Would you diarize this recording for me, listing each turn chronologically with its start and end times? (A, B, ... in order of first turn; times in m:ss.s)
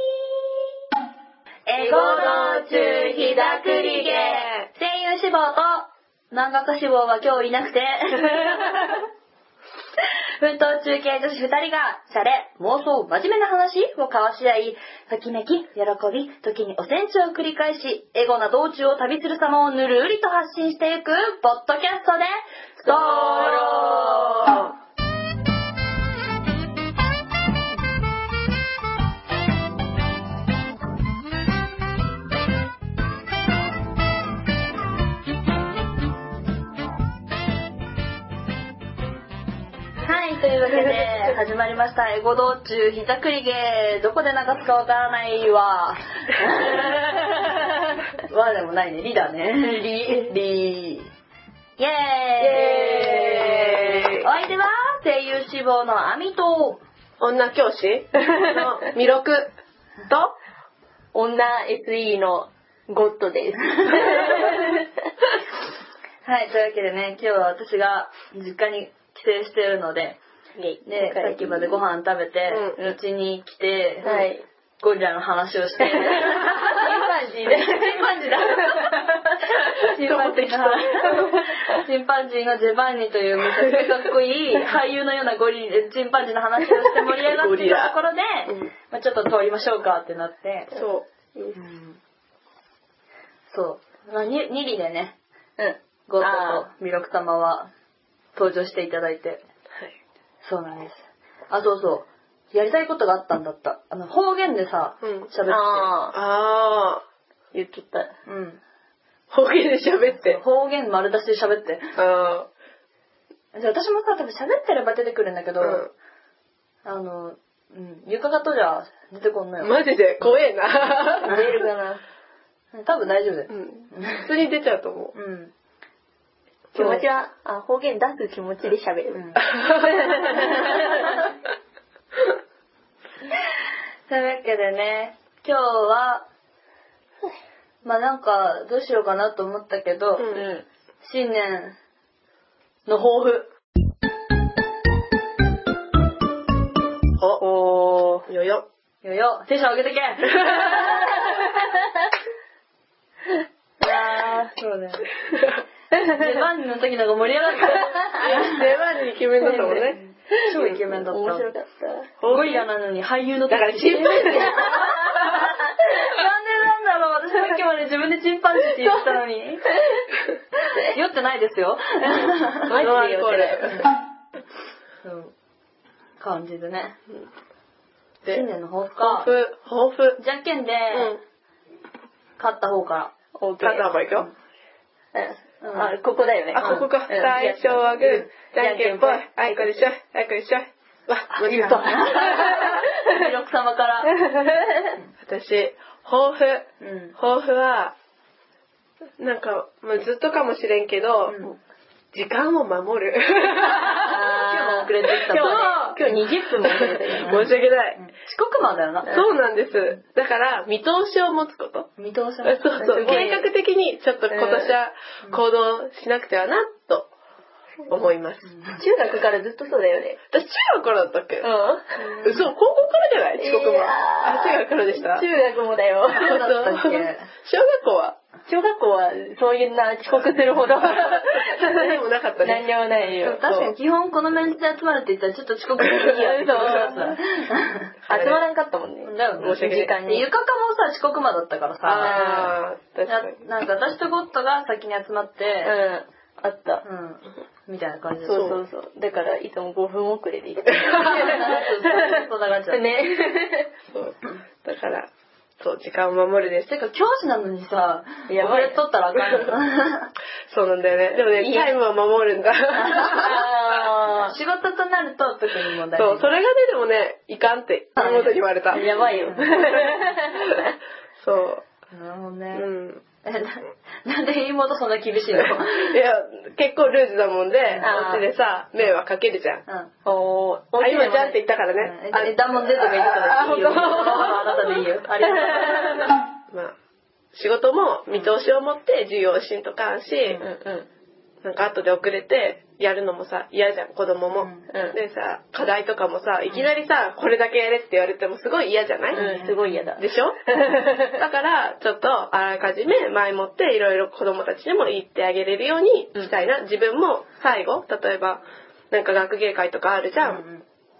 0:01.7-0:09.0 A
0:01.8-0:04.4 B
0:01.8-0:02.7 C
0:03.4-0:04.7 C
0:10.4-0:24.6 A
0:22.9-0:24.7 C
0:22.9-0:24.4 B
0:40.0-0:47.4 A
0:48.2-0:51.1 A
0:49.6-0:50.3 B
0:51.8-0:56.8 A
0:52.4-0:54.1 B
0:52.4-0:54.1 C
0:57.2-0:59.5 C
1:00.1-1:00.3 C
1:01.1-1:04.9 B
1:03.8-1:04.5 A
1:06.2-1:10.2 A
1:10.6-1:11.8 B
1:10.8-1:14.3 A
1:12.5-1:12.8 C
1:14.0-1:14.4 B
1:14.8-1:30.7 A
1:15.8-1:18.9 B
1:20.0-1:21.4 C
1:27.0-1:28.0 C
1:30.7-1:31.6 C
1:31.5-1:32.0 A
1:33.5-1:35.2 A
1:35.6-1:36.7 B
1:36.1-1:37.7 A
1:38.4-1:39.4 A
1:40.4-1:45.9 A
1:45.0-1:45.3 C
1:45.5-1:46.2 B
1:46.1-1:47.0 C
1:47.5-1:48.1 B
1:48.3-1:48.6 A
1:49.3-1:50.4 C
1:50.2-1:52.0 A
1:52.0-1:52.5 C
1:53.5-1:55.8 A
1:55.6-1:55.9 C
1:56.8-1:59.8 A
1:59.6-2:01.4 C
2:01.2-2:02.0 B
2:02.7-2:04.3 A
2:03.5-2:05.1 C
2:05.1-2:05.5 A
2:06.7-2:07.1 C
2:06.8-2:11.1 B
2:09.1-2:09.5 A
2:09.5-2:10.8 C
2:10.3-2:11.1 A
2:14.1-2:16.2 A
2:17.8-2:20.3 A
2:20.2-2:20.5 C
2:20.3-2:20.6 B
2:21.0-2:21.8 A
2:22.9-2:23.5 A
2:27.2-2:27.4 C
2:27.4-2:28.3 B
2:28.3-2:28.7 C
2:29.0-2:31.4 A
2:30.5-2:30.8 C
2:33.8-2:34.5 B
2:34.5-2:35.1 A
2:35.3-2:35.6 C
2:36.0-2:38.6 A
2:38.2-2:40.0 C
2:39.4-2:42.2 B
2:39.7-2:41.5 A
2:42.2-2:42.6 C
2:42.3-2:49.7 A
2:43.5-2:44.9 C
2:44.3-2:44.7 B
2:50.7-2:52.7 A
2:52.1-2:53.8 B
2:52.7-2:53.9 C
2:55.0-2:55.3 A
2:56.2-2:57.0 A
2:58.3-2:59.3 A
2:59.0-3:00.2 C
3:00.2-3:01.2 A
3:00.9-3:01.2 C
3:02.4-3:03.1 A
3:03.4-3:03.9 B
3:03.6-3:04.3 C
3:05.1-3:09.2 B
3:05.6-3:05.9 A
3:06.5-3:12.8 C
3:06.6-3:06.9 A
3:11.4-3:12.9 B
3:11.5-3:14.2 A
3:14.2-3:14.9 B
3:15.2-3:17.9 C
3:16.8-3:17.2 A
3:19.2-3:21.5 C
3:21.3-3:21.6 A
3:22.1-3:24.2 C
3:23.9-3:26.0 A
3:23.9-3:27.5 B
3:25.3-3:26.0 C
3:26.5-3:28.0 C
3:27.2-3:29.2 A
3:29.1-3:31.9 C
3:32.0-3:33.1 A
3:32.4-3:37.1 C
3:32.8-3:33.5 B
3:34.3-3:34.8 B
3:37.9-3:38.5 C
3:38.5-3:38.8 A
3:38.8-3:40.2 B
3:40.3-3:41.5 C
3:41.4-3:42.1 B
3:42.0-3:42.5 A
3:42.2-3:45.3 C
3:43.4-3:46.4 B
3:46.1-3:47.3 A
3:46.2-3:48.2 C
3:48.5-3:53.4 B
3:50.6-3:52.7 C
3:53.2-3:57.9 A
3:53.4-3:53.7 C
3:55.8-3:57.0 C
3:56.1-3:57.2 B
3:58.1-4:00.3 B
3:58.1-3:58.4 C
3:59.0-4:02.5 A
3:59.4-4:00.0 C
4:01.8-4:03.4 C
4:02.0-4:02.5 B
4:03.1-4:05.7 A
4:05.6-4:06.8 B
4:06.8-4:08.6 A
4:08.3-4:13.7 B
4:08.3-4:08.6 C
4:10.8-4:11.1 C
4:10.9-4:12.8 A
4:13.9-4:16.7 C
4:16.7-4:20.1 A
4:18.3-4:18.8 B
4:20.5-4:23.5 C
4:21.3-4:21.7 B
4:22.7-4:23.4 A
4:23.0-4:24.4 B
4:24.2-4:26.4 A
4:25.9-4:28.8 C
4:28.0-4:28.4 A
4:28.7-4:30.6 B
4:29.2-4:29.8 A
4:29.5-4:30.7 C
4:31.2-4:31.6 C
4:31.9-4:32.7 A
4:32.5-4:33.0 C
4:33.2-4:36.0 A
4:35.4-4:39.6 C
4:37.8-4:38.3 B
4:39.7-4:39.9 A
4:40.0-4:41.4 B
4:40.8-4:44.8 C
4:41.8-4:46.0 A
4:45.5-4:45.8 B
4:46.5-4:46.8 C
4:47.3-4:50.4 C
4:50.4-4:50.9 B
4:51.4-4:59.3 C
4:54.4-4:54.7 A
4:54.7-4:55.0 B
4:59.1-4:59.9 A
4:59.1-5:01.2 B
5:00.0-5:00.4 C
5:01.1-5:10.4 C
5:10.2-5:10.6 A